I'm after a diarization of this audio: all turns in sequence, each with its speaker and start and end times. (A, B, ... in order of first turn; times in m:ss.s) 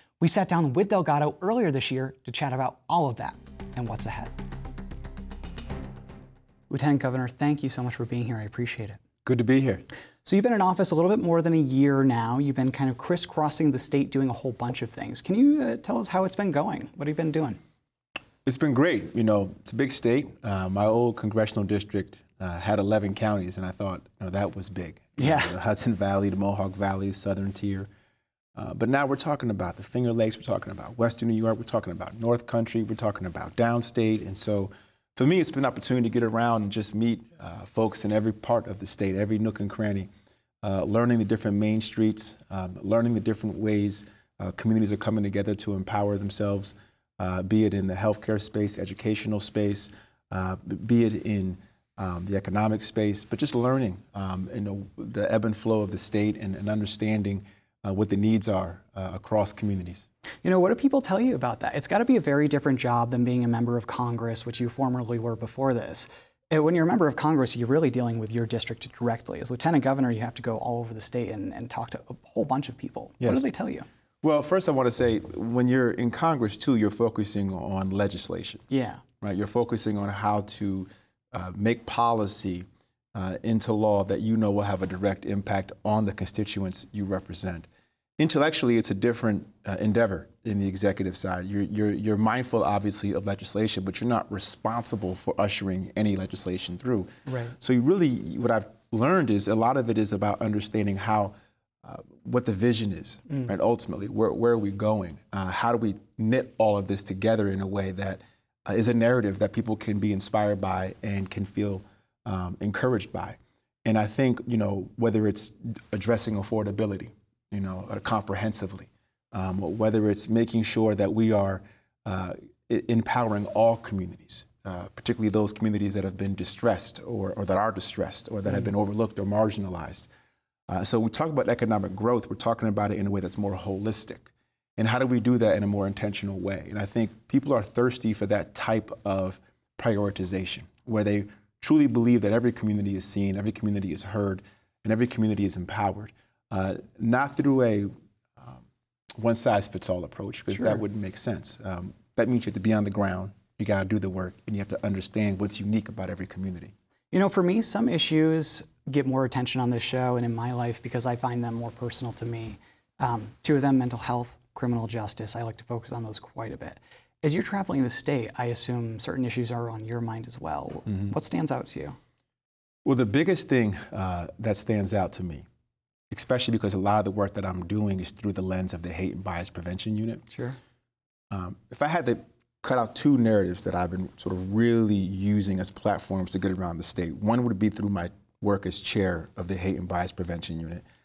0:00.2-0:04.3 A
0:06.7-0:09.0 A
0:09.2-0:09.8 B
0:10.2-0:17.6 A
0:18.5-0:27.9 B
0:25.2-0:25.5 A
0:28.6-0:40.1 B
0:40.6-1:00.1 B
1:00.4-1:13.9 A
1:13.2-1:13.5 B
1:14.2-1:18.6 B
1:18.7-1:19.0 A
1:19.2-1:27.7 B
1:28.2-2:10.1 B
1:37.3-1:37.6 A
2:10.7-2:28.6 B
2:29.2-2:36.7 B
2:30.5-2:30.8 A
2:37.1-2:52.0 A
2:52.8-2:55.5 B
2:56.1-3:00.2 B
3:00.3-3:00.6 A
3:01.3-3:10.8 B